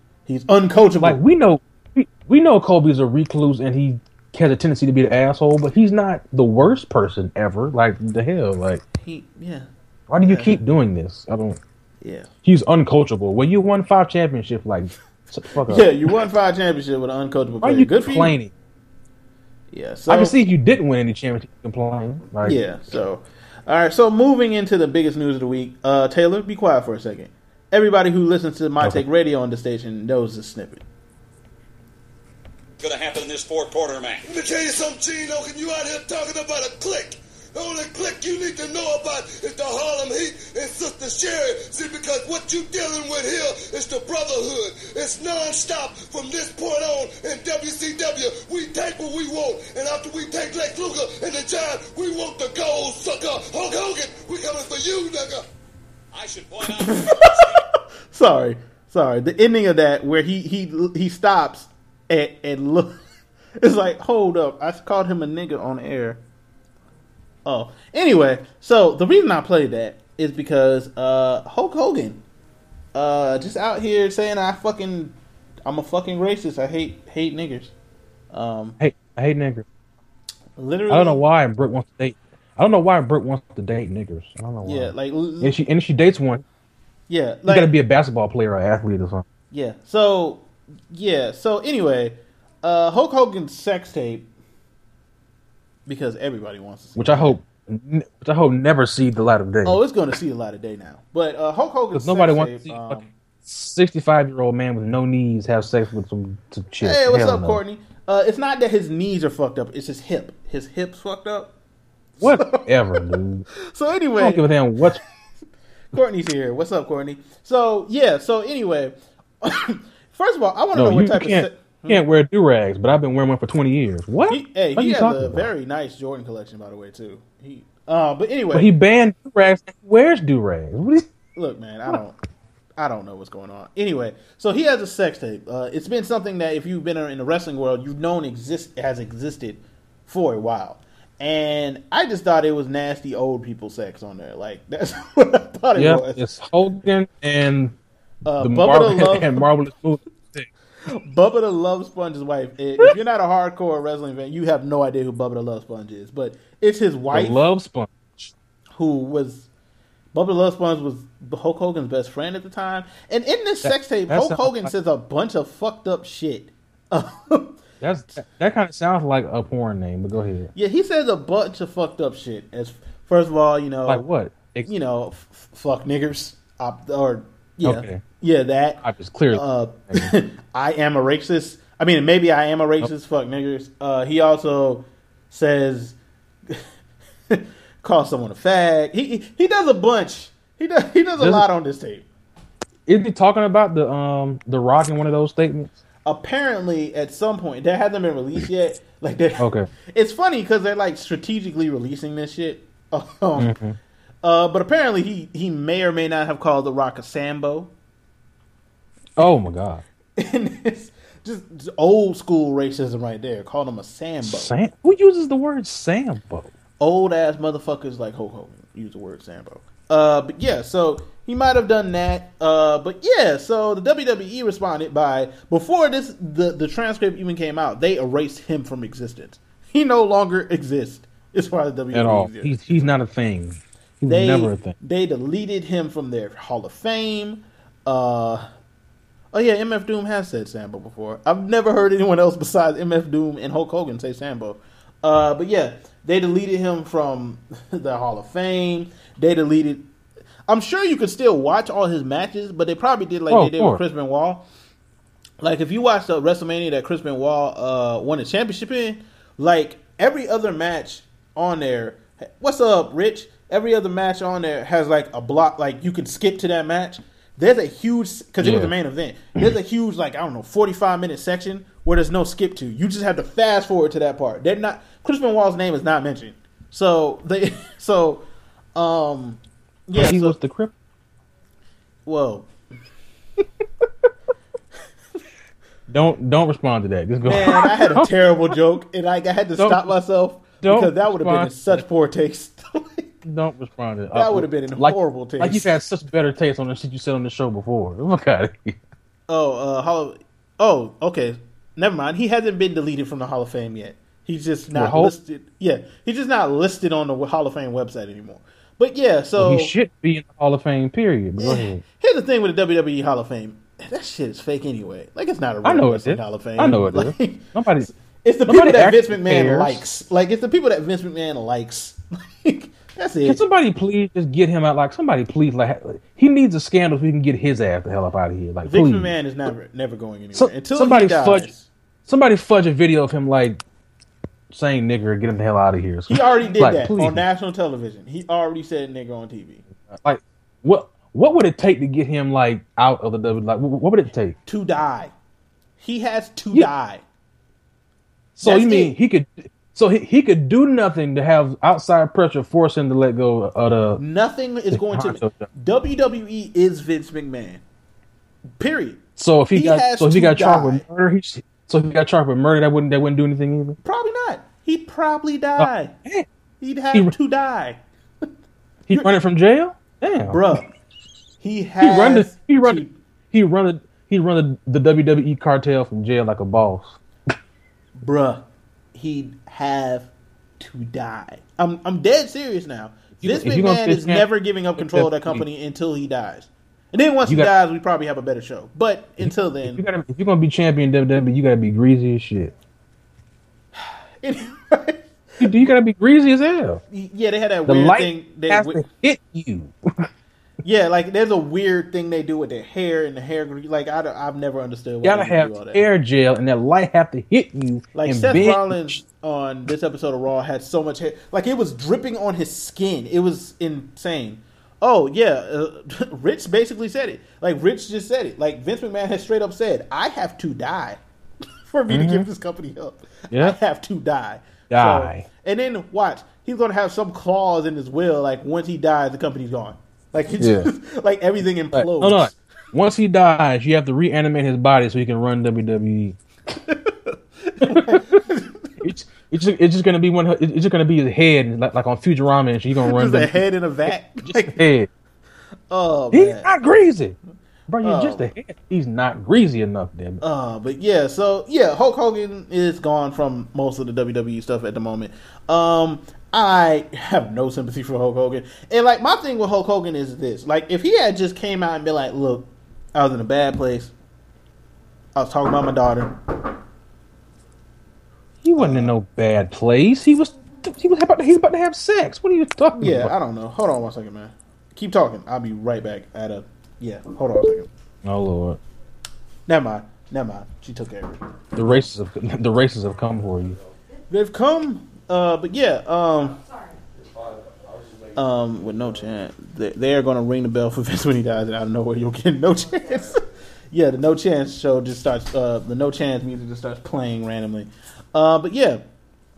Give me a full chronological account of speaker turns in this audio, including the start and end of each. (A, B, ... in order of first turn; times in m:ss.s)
0:00.3-0:01.2 A
0:01.0-0:08.8 B
0:09.0-0:09.7 A
0:10.1-0:11.6 B
0:10.2-0:10.6 A
0:12.0-0:12.3 A
0:12.4-0:15.9 B
0:15.7-0:18.3 A
0:17.6-0:18.5 B
0:19.7-0:20.4 A
0:20.1-0:22.6 B
0:22.4-0:30.8 A
0:32.8-0:34.2 C
0:34.2-0:55.5 D
0:56.1-0:57.4 C
0:56.8-1:03.0 A
1:03.6-1:06.2 A
1:07.5-1:12.2 A
1:12.9-1:15.2 A
1:15.7-1:17.7 A
1:18.3-1:18.8 A
1:18.8-1:19.7 B
1:20.6-1:21.2 A
1:20.9-1:26.4 B
1:24.6-1:25.6 A
1:27.1-1:27.7 A
1:27.5-1:29.3 B
1:29.5-1:34.3 A
1:35.9-1:37.4 A
1:37.0-1:39.8 B
1:39.6-1:43.1 A
1:41.9-1:47.6 B
1:46.8-1:51.5 A
1:52.2-1:53.0 A
1:52.2-1:53.5 B
1:53.6-1:54.4 A
1:54.2-1:55.0 B
1:55.9-2:02.0 A
2:00.8-2:05.5 B
2:04.3-2:08.7 A
2:08.5-2:11.1 B
2:11.4-2:12.2 A
2:12.8-2:26.2 A
2:25.8-2:27.8 B
2:28.2-2:29.5 A
2:28.4-2:30.5 B
2:30.9-2:37.4 A
2:37.1-2:38.3 B
2:38.8-2:39.5 A
2:40.1-2:47.6 A
2:43.6-2:44.7 B
2:47.8-2:50.5 B
2:50.6-2:54.1 A
2:53.9-2:54.7 B
2:54.7-3:06.0 A
2:57.6-2:58.0 B
2:58.8-3:00.1 B
3:07.3-3:12.0 A
3:11.2-3:11.4 B
3:12.9-3:15.8 B
3:16.1-3:23.5 A
3:19.4-3:19.7 B
3:23.4-3:23.8 B
3:24.2-3:27.7 A
3:29.2-3:29.8 B
3:30.2-3:34.5 A
3:34.2-3:36.5 B
3:36.8-3:53.0 A
3:51.9-3:54.8 B
3:54.0-3:58.5 A
3:59.3-4:09.9 A
4:10.5-4:14.5 A
4:13.3-4:13.8 B
4:15.4-4:38.2 A
4:28.4-4:28.7 B
4:38.8-4:40.4 A
4:40.0-4:40.7 B
4:42.1-4:42.5 A
4:45.9-4:48.1 B
4:47.2-4:53.1 A
4:49.6-4:50.0 B
4:50.6-4:51.8 B
4:53.2-4:58.8 B
4:54.1-4:55.8 A
4:59.3-5:09.7 A
5:04.7-5:05.2 B
5:09.4-5:11.8 B
5:11.4-5:23.4 A
5:15.6-5:17.9 B
5:18.5-5:19.8 B
5:23.3-5:29.2 B
5:28.6-5:31.7 A
5:30.4-5:31.5 B
5:32.1-5:33.6 B
5:34.5-5:37.2 B
5:36.1-5:39.6 A
5:39.8-5:44.4 B
5:44.5-5:45.1 A
5:45.8-5:47.0 A
5:48.4-5:54.0 B
5:48.4-5:49.0 A
5:54.0-5:57.6 A
5:54.7-5:55.5 B
5:58.6-6:00.8 A
5:59.2-6:03.8 B
6:03.8-6:05.9 A
6:05.6-6:06.3 B
6:06.6-6:07.8 A
6:08.9-6:10.4 B
6:10.3-6:10.7 A
6:11.4-6:13.0 A
6:11.8-6:17.0 B
6:18.0-6:29.8 A
6:23.2-6:25.5 B
6:27.2-6:27.5 B
6:29.2-6:32.6 B
6:33.8-6:35.6 A
6:35.4-6:36.8 B
6:36.9-6:38.8 A
6:37.7-6:40.1 B
6:40.6-6:45.8 A
6:45.0-6:49.0 B
6:47.9-7:01.0 A
7:01.7-7:12.3 A
7:01.9-7:02.3 B
7:03.3-7:03.6 B
7:04.7-7:05.3 B
7:10.4-7:10.7 B
7:11.7-7:16.2 B
7:16.7-7:18.8 A
7:17.6-7:18.2 B
7:18.8-7:24.9 B
7:22.8-7:24.6 A
7:25.7-7:26.5 A
7:26.1-7:27.2 B
7:27.7-7:30.2 B
7:27.8-7:28.3 A
7:30.2-7:43.9 A
7:45.2-7:46.2 A
7:48.4-7:53.1 B
7:48.6-7:48.9 A
7:52.8-7:57.7 A
7:58.0-7:58.6 B
7:59.5-8:01.8 A
8:01.6-8:03.6 B
8:04.1-8:06.4 A
8:08.1-8:18.8 A